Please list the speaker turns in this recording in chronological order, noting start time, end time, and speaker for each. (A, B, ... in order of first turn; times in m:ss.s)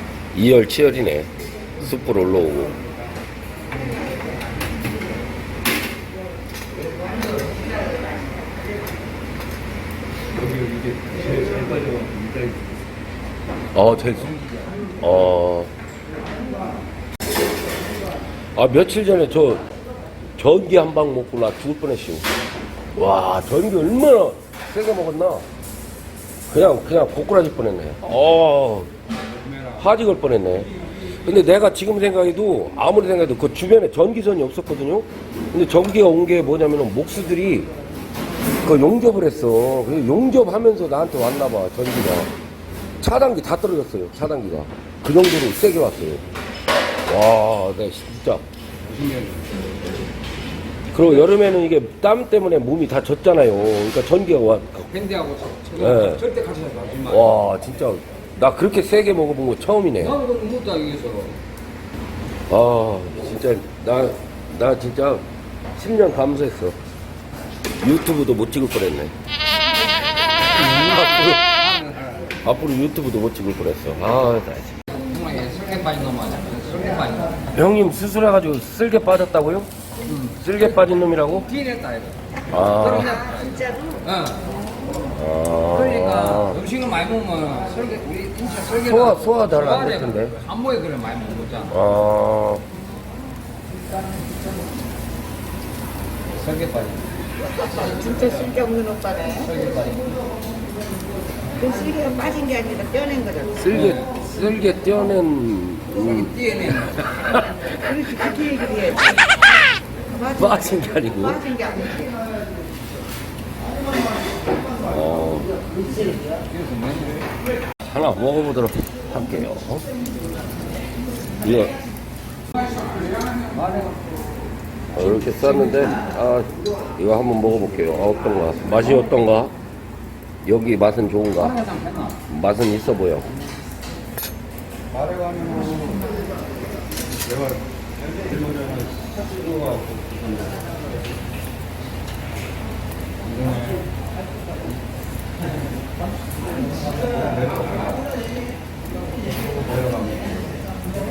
0:00.3-0:02.8 A
0:13.7-0:14.3 A
0:14.2-0:14.7 B
0:15.0-0:15.7 A
0:18.6-0:19.6 A
0:20.4-0:22.3 A
0:23.0-0:25.4 A
0:26.5-0:28.9 A
0:29.4-0:29.8 B
0:29.8-0:30.7 A
0:31.2-0:37.7 A
0:38.6-0:42.3 A
0:43.0-0:46.2 A
0:47.1-0:48.4 A
0:48.8-0:49.6 B
0:50.9-0:54.9 A
0:54.9-0:57.3 B
0:55.8-0:56.2 A
0:57.1-1:00.2 A
1:00.0-1:01.4 B
1:02.5-1:05.2 A
1:05.8-1:06.8 A
1:07.8-1:09.1 A
1:10.4-1:12.3 B
1:10.6-1:11.4 A
1:12.4-1:14.8 A
1:14.9-1:17.5 B
1:17.5-1:19.7 A
1:20.1-1:20.9 B
1:20.4-1:21.5 A
1:21.4-1:24.5 B
1:22.5-1:23.2 A
1:23.3-1:24.0 C
1:25.1-1:26.6 A
1:25.7-1:31.8 B
1:28.7-1:30.4 A
1:31.7-1:32.6 A
1:36.3-1:37.1 B
1:37.6-1:39.5 C
1:39.4-1:40.2 B
1:41.6-1:43.6 C
1:43.6-1:48.1 A
1:43.7-1:44.1 B
1:46.0-1:47.4 B
1:47.8-1:49.3 C
1:50.1-1:52.2 C
1:50.2-1:51.5 A
1:54.8-1:55.6 A
1:56.4-1:57.3 B
1:57.8-1:59.9 A
2:01.4-2:01.8 A
2:03.2-2:04.0 B
2:04.9-2:09.5 A
2:10.4-2:11.6 A
2:11.4-2:12.2 B
2:12.3-2:13.3 A
2:15.0-2:16.0 B
2:18.5-2:20.1 B
2:23.2-2:23.8 B